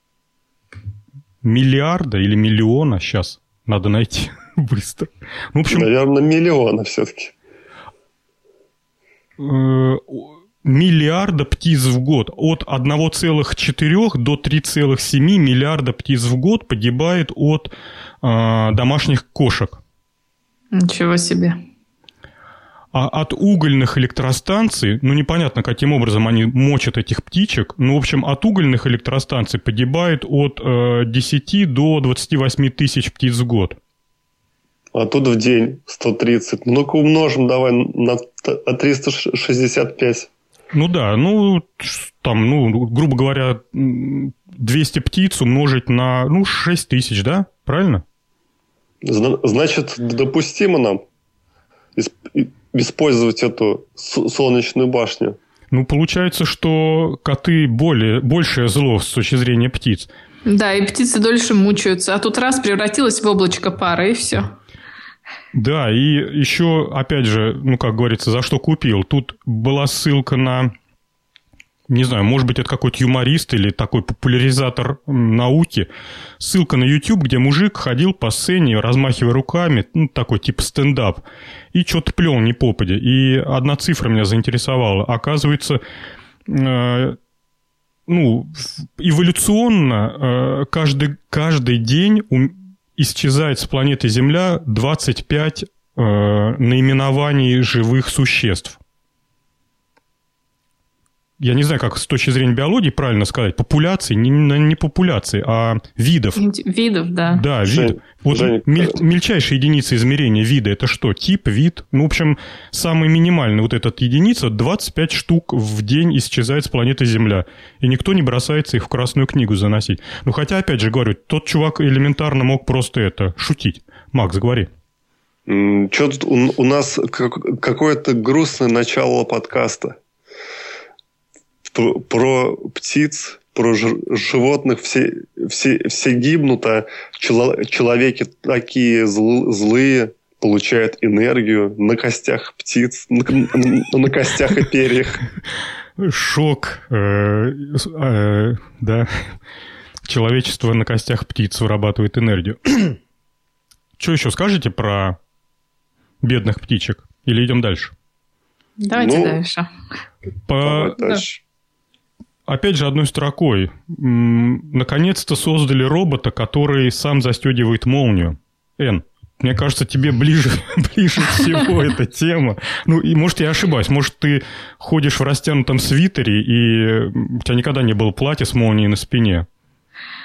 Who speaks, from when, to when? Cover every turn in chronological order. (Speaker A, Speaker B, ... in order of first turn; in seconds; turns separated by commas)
Speaker A: 1.4-5.9, Speaker B: 5.7-7.3, Speaker A: 9.4-17.7, Speaker A: 18.2-19.8, Speaker C: 20.7-21.6, Speaker A: 22.9-33.8, Speaker B: 34.9-40.3, Speaker A: 40.7-48.0, Speaker B: 49.0-51.0, Speaker B: 52.0-55.4, Speaker A: 55.7-60.1, Speaker C: 60.5-64.5, Speaker A: 65.5-70.7, Speaker A: 71.9-85.8, Speaker A: 86.5-87.2, Speaker A: 88.1-98.8, Speaker A: 101.4-106.4, Speaker C: 106.4-107.4, Speaker A: 107.3-124.7, Speaker B: 107.6-109.0, Speaker B: 125.5-130.0, Speaker B: 131.7-145.2, Speaker A: 146.0-149.1, Speaker A: 150.0-153.0, Speaker A: 154.0-155.2, Speaker A: 156.2-157.9, Speaker C: 158.8-159.7, Speaker B: 158.9-159.4, Speaker A: 160.4-161.2, Speaker B: 160.6-161.4, Speaker A: 162.5-179.4